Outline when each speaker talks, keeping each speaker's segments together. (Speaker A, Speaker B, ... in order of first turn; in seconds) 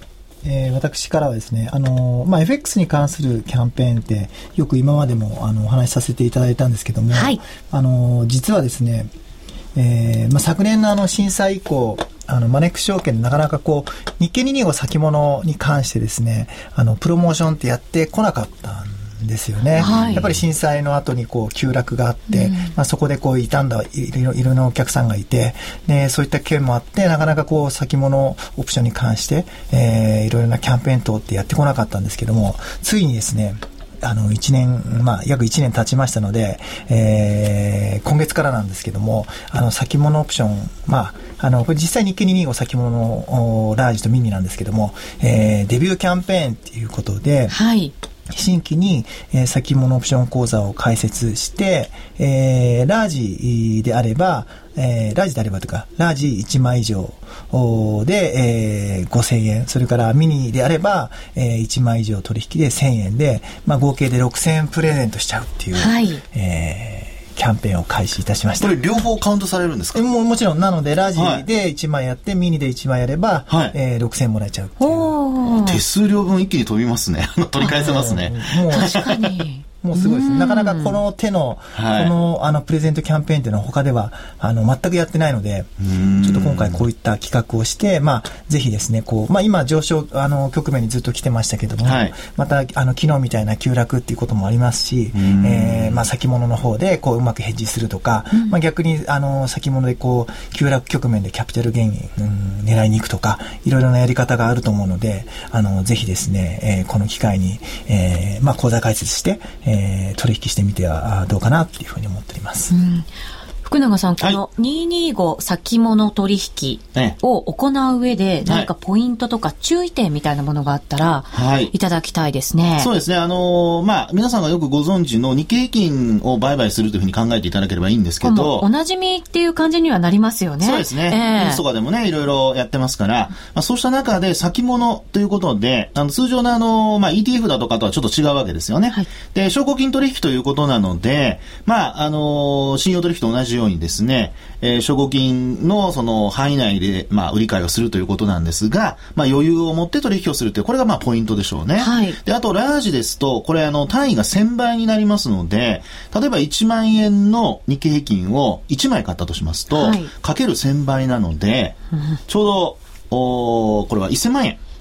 Speaker A: 0.4-9.1, 9.8-47.6, 48.3-68.8, 69.9-75.1, 77.6-79.0, 79.8-112.7
Speaker B: 7.1-7.4, 19.8-20.3, 22.3-22.7, 47.5-47.9, 65.8-66.2, 74.8-75.8, 77.6-78.1, 78.7-81.0, 112.7-113.1, 113.7-122.9, 128.2-131.6, 151.8-152.2, 159.7-160.1
Speaker C: 19.8-20.3, 68.6-70.0, 71.2-71.5, 73.5-73.8, 75.5-79.2, 81.7-82.1, 85.8-86.8, 91.8-92.1, 95.2-96.0, 121.3-121.7, 122.8-128.7, 130.6-164.6